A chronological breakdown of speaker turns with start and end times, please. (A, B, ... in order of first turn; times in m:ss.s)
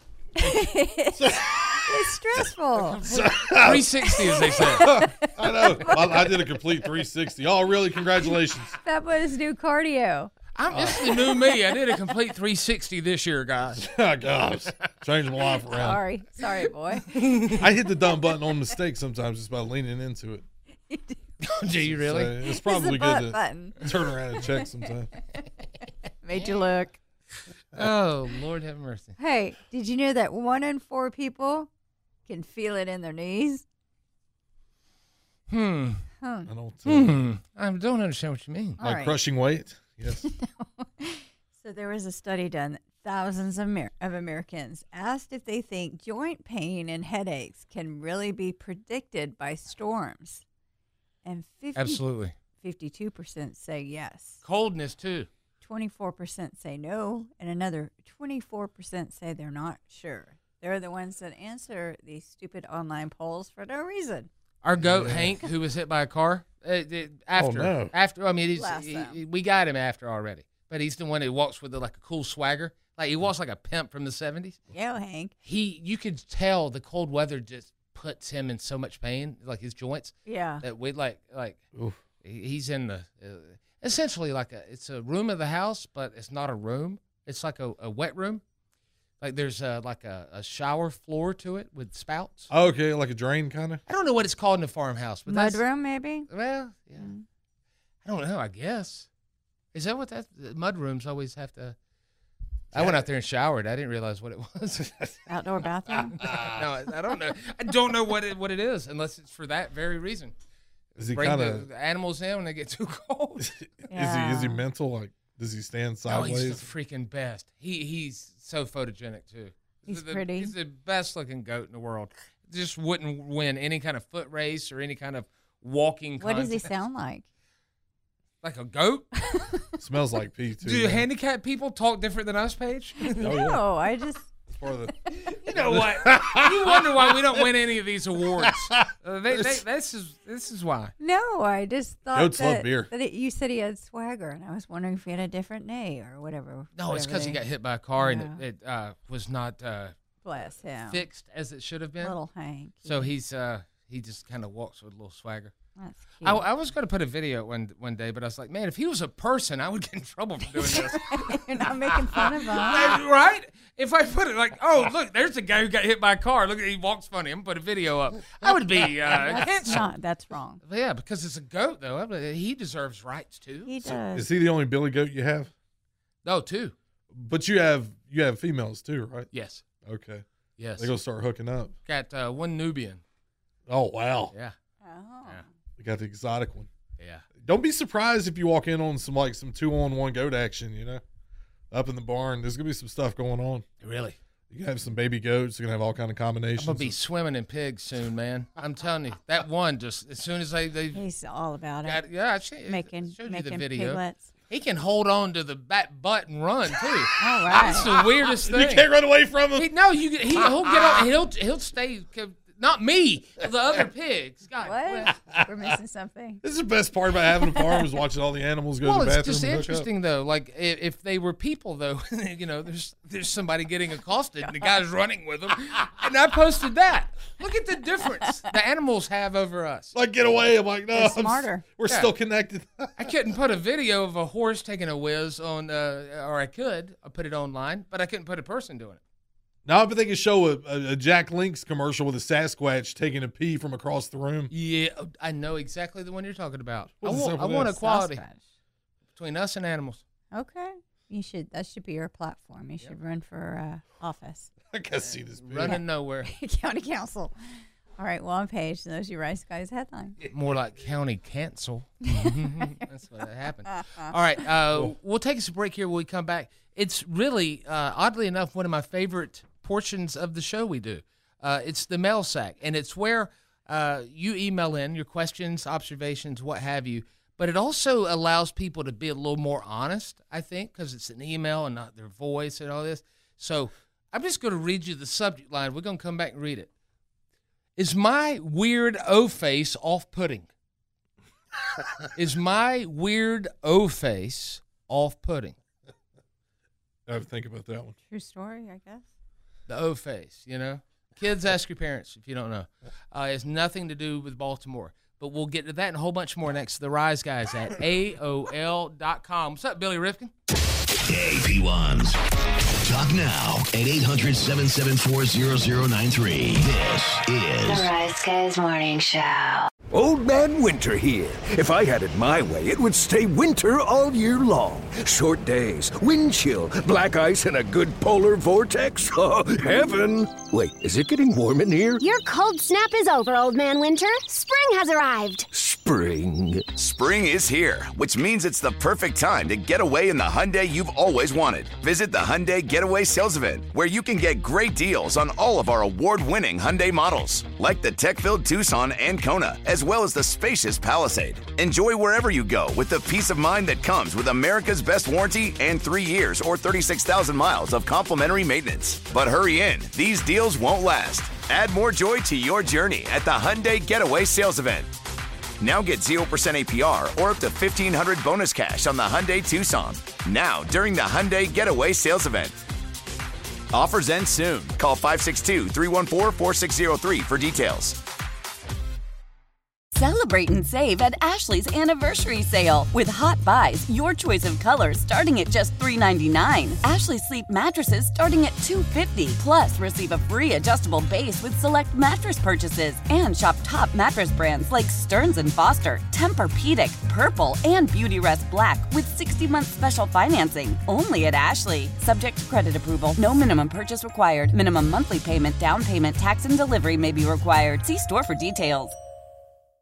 0:00.4-0:03.1 A
0:01.1-0:02.4 B
0:02.8-0:05.1 C
0:03.0-0:03.9 B
0:04.3-0:06.3 A
0:04.4-0:08.8 B
0:08.8-0:10.3 A
0:10.5-0:13.8 C
0:10.7-0:11.0 B
0:13.8-0:16.0 B
0:15.6-0:17.5 A
0:17.1-0:17.6 C
0:17.6-0:20.4 B
0:20.9-0:21.2 A
0:21.4-0:22.4 C
0:21.9-0:25.1 B
0:22.5-0:24.6 A
0:26.2-0:27.0 A
0:26.3-0:26.6 C
0:27.7-0:29.2 C
0:29.2-0:31.7 A
0:32.3-0:33.6 A
0:35.5-0:36.0 C
0:36.2-0:36.5 A
0:36.5-0:37.3 B
0:36.8-0:38.8 C
0:38.8-0:39.2 A
0:38.8-0:40.2 B
0:40.2-0:50.4 A
0:51.2-0:52.0 A
0:51.7-0:52.3 C
0:52.6-0:54.4 A
0:54.4-0:55.3 C
0:55.6-1:04.3 A
1:04.6-1:14.6 C
1:04.8-1:05.3 B
1:07.3-1:07.9 B
1:08.5-1:09.2 A
1:14.7-1:15.3 A
1:15.4-1:21.6 C
1:20.2-1:20.6 A
1:21.7-1:22.0 B
1:22.2-1:28.4 C
1:29.2-1:32.5 C
1:32.5-1:33.8 B
1:33.9-1:35.6 C
1:35.3-1:36.3 A
1:36.3-1:37.1 C
1:37.0-1:37.2 A
1:38.0-1:39.1 C
1:39.7-1:41.8 C
1:42.7-1:44.9 C
1:42.7-1:43.0 B
1:44.8-1:45.2 B
1:45.3-1:46.4 A
1:45.9-1:46.6 B
1:46.2-1:50.3 C
1:51.0-1:51.6 B
1:51.1-1:53.5 C
1:53.4-1:56.6 B
1:53.9-1:54.6 A
1:56.0-2:06.7 C
1:59.8-2:00.5 A
2:06.2-2:07.2 A
2:08.4-2:09.1 C
2:09.3-2:09.7 A
2:09.8-2:11.0 B
2:10.6-2:13.3 C
2:13.1-2:14.3 A
2:13.2-2:13.7 B
2:14.5-2:14.9 B
2:15.4-2:17.4 B
2:15.4-2:20.9 C
2:18.4-2:19.6 B
2:21.0-2:27.4 A
2:22.1-2:22.9 B
2:26.8-2:30.0 C
2:28.0-2:28.4 A
2:30.2-2:31.0 A
2:30.8-2:32.2 C
2:32.0-2:33.1 A
2:32.8-2:35.5 C
2:35.8-2:36.4 A
2:36.2-2:49.9 C
2:40.5-2:43.0 A
2:49.1-2:50.6 A
2:50.6-2:53.7 C
2:53.6-2:54.3 A
2:53.9-2:55.5 B
2:56.2-2:56.7 C
2:57.1-2:59.3 B
2:59.3-2:59.6 C
2:59.8-3:00.2 B
3:00.6-3:00.9 C
3:00.8-3:01.8 B
3:01.8-3:03.0 C
3:03.7-3:04.3 B
3:04.8-3:05.4 A
3:05.8-3:06.7 B
3:07.0-3:07.2 C
3:07.4-3:11.0 B
3:11.7-3:13.6 B
3:13.8-3:14.2 C
3:14.5-3:17.0 B
3:16.6-3:21.0 C
3:20.9-3:22.0 A
3:21.8-3:28.9 C
3:22.7-3:24.3 A
3:27.2-3:27.9 A
3:27.5-3:29.7 B
3:29.6-3:35.1 C
3:30.4-3:31.0 B
3:34.6-3:36.4 A
3:35.1-3:35.8 B
3:36.4-3:39.9 B
3:38.8-3:49.9 C
3:49.9-3:53.0 B
3:50.9-3:51.6 A
3:53.0-3:59.0 C
3:59.6-4:04.5 B
4:04.5-4:08.2 C
4:07.0-4:07.7 B
4:07.6-4:08.4 A
4:09.2-4:10.0 C
4:10.3-4:14.5 A
4:14.7-4:15.8 B
4:15.4-4:16.3 C
4:15.6-4:17.3 A
4:18.0-4:20.2 A
4:20.2-4:46.7 C
4:22.1-4:22.7 A
4:23.7-4:24.1 A
4:47.8-4:50.5 C
4:52.1-4:55.6 C
4:57.1-4:57.9 B
4:58.1-4:59.0 A
4:59.7-5:10.3 C
5:11.0-5:12.2 D
5:12.8-5:17.8 D
5:17.6-5:17.8 E
5:17.6-5:19.7 F
5:19.9-5:32.0 E
5:32.0-5:35.5 G
5:35.5-5:36.8 E
5:36.8-6:04.9 H
6:05.6-6:12.6 H
6:13.7-6:18.0 H
6:19.9-6:49.0 I